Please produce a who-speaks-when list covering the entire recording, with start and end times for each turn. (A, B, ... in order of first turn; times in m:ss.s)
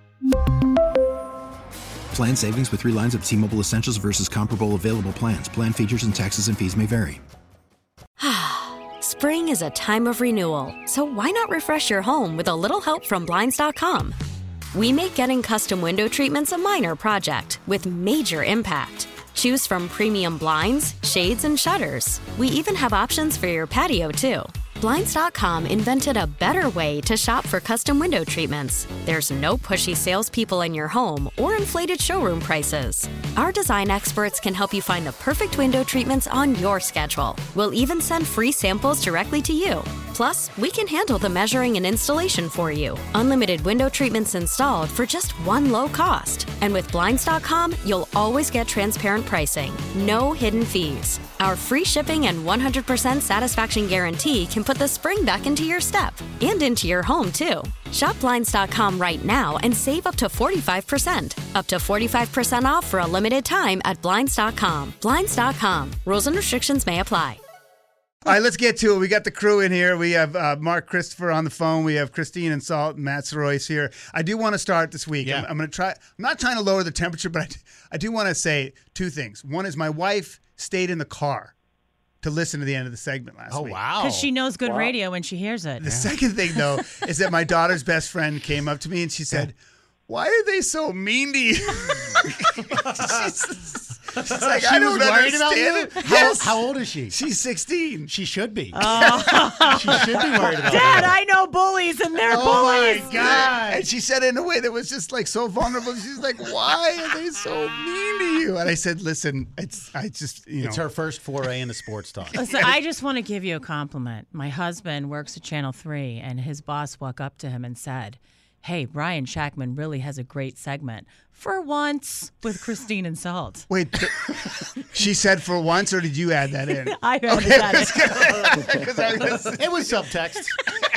0:02.1-0:07.2 A
0:08.2-0:14.2 B
0:14.7-1:07.4 B
1:08.2-1:21.5 C
1:15.2-1:15.5 D
1:22.2-1:23.8 C
1:23.5-1:24.3 D
1:24.0-1:26.1 E
1:25.8-1:29.6 C
1:25.9-1:26.1 D
1:30.1-1:38.1 C
1:34.4-1:37.2 D
1:38.1-1:39.0 D
1:38.7-1:43.4 E
1:38.8-1:41.1 C
1:39.7-1:41.2 D
1:42.3-1:43.9 D
1:43.1-1:50.8 C
1:50.6-1:52.4 D
1:52.4-2:03.7 E
1:52.4-1:52.8 C
2:03.7-2:09.7 C
2:06.7-2:08.7 E
2:09.6-2:10.6 D